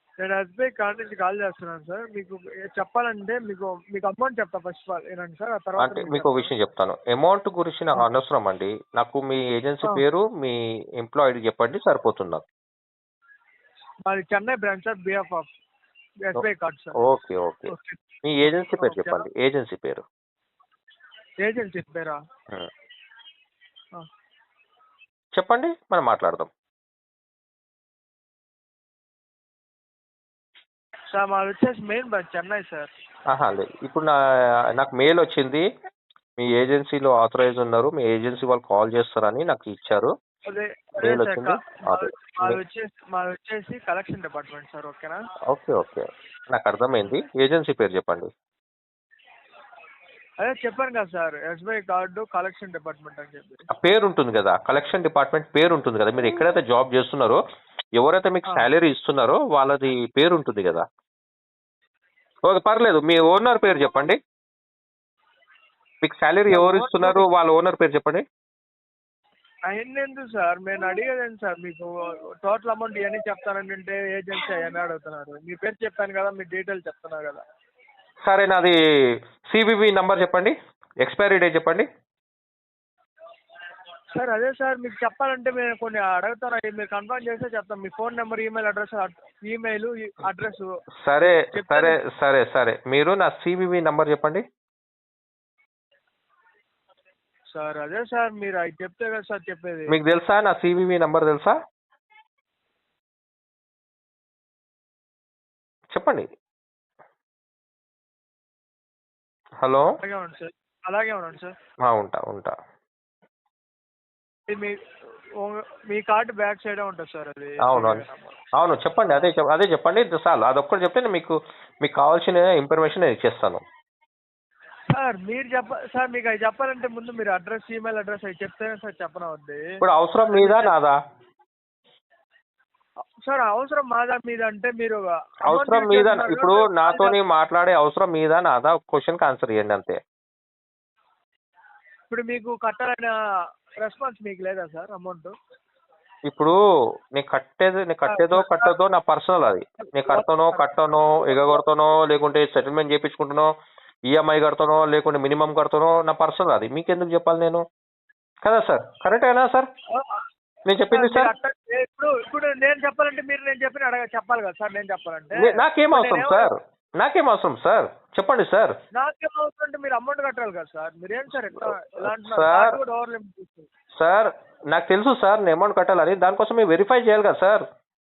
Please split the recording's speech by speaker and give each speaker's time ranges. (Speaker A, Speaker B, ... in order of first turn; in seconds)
Speaker A: 0.2-6.5, 14.1-15.5, 16.2-17.0, 17.7-19.2, 21.4-22.2, 31.1-32.9, 40.5-45.2, 50.4-53.6, 66.5-67.2, 69.7-71.9, 72.4-77.4, 84.2-90.7, 91.2-92.0, 97.5-100.0, 110.0-111.5, 114.5-114.8, 115.4-118.4, 119.0-119.3, 124.9-130.7, 133.2-137.2, 142.1-143.1, 143.8-145.3, 148.1-148.7, 149.8-151.6, 159.9-160.2, 160.9-166.5, 168.9-173.7
Speaker B: 5.8-12.4, 17.0-20.1, 25.4-26.5, 33.3-34.2, 34.7-35.6, 36.4-40.1, 41.0-42.6, 45.5-48.3, 53.7-57.4, 58.0-60.9, 62.5-64.2, 66.0-68.2, 78.2-78.8, 79.5-81.9, 91.0-94.4, 99.9-101.6, 105.9-106.3, 109.6-109.9, 111.8-112.6, 117.7-118.0, 118.6-123.6, 129.8-131.0, 135.5-140.0, 146.3-146.6, 147.1-153.5, 154.1-157.7, 158.4-159.7, 160.7-161.3, 165.4-168.8, 171.6-172.8, 174.0-177.7